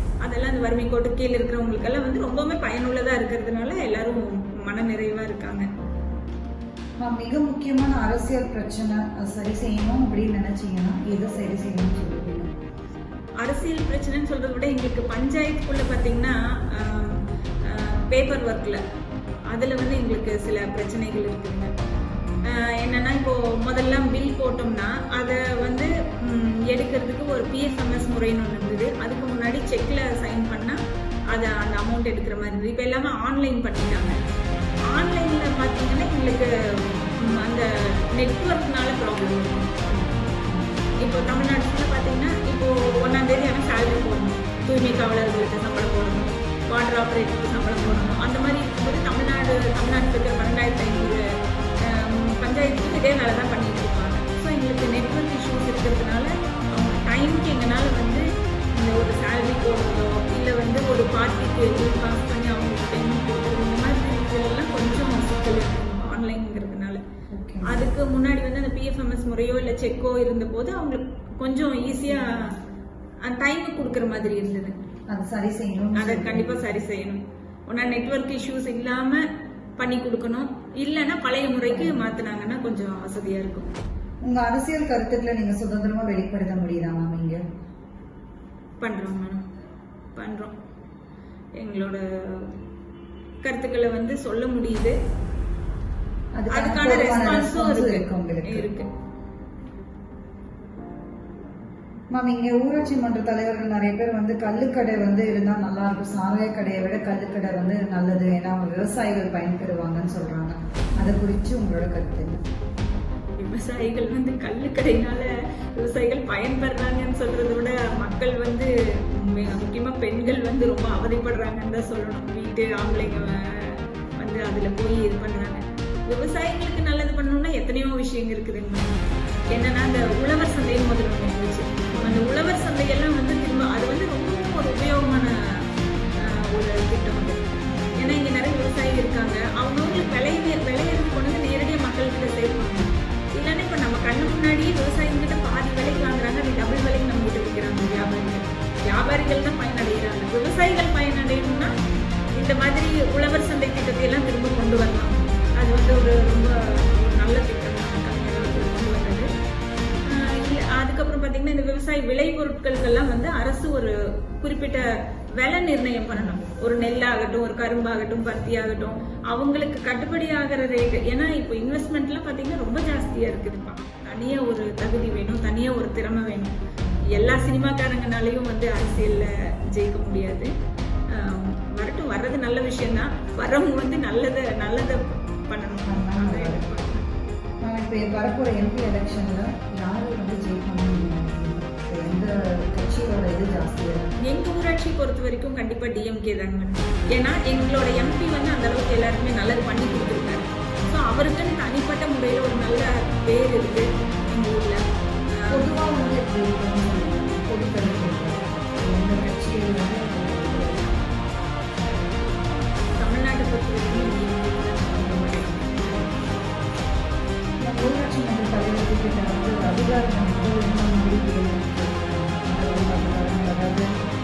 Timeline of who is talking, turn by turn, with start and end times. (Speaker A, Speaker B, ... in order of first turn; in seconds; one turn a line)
Speaker A: 0.2-5.7
Speaker B: 7.0-12.5
Speaker A: 13.4-18.8
Speaker A: 19.5-21.7
Speaker A: 22.4-30.8
Speaker A: 31.3-34.2
Speaker A: 34.9-39.7
Speaker B: 39.9-41.0
Speaker A: 41.0-51.2
Speaker A: 51.8-67.0
Speaker B: 67.3-67.8
Speaker A: 67.6-72.5
Speaker A: 73.2-74.8
Speaker B: 75.1-76.8
Speaker A: 76.0-79.2
Speaker A: 79.8-83.7
Speaker B: 81.7-82.1
Speaker B: 84.2-87.4
Speaker A: 88.8-89.4
Speaker A: 90.1-90.5
Speaker A: 91.6-92.5
Speaker A: 93.4-95.0
Speaker B: 96.3-98.7
Speaker A: 96.5-98.9
Speaker B: 102.1-112.5
Speaker A: 113.3-128.9
Speaker B: 123.0-123.3
Speaker A: 129.5-135.6
Speaker B: 131.9-132.3
Speaker A: 136.2-137.4
Speaker B: 137.7-138.1
Speaker A: 137.9-151.7
Speaker A: 152.4-159.3
Speaker A: 160.1-180.5
Speaker B: 176.8-177.4
Speaker A: 181.1-187.1
Speaker B: 185.9-186.7
Speaker B: 187.6-194.2
Speaker A: 194.2-205.7
Speaker B: 205.5-211.1
Speaker A: 213.0-216.1
Speaker B: 217.6-223.9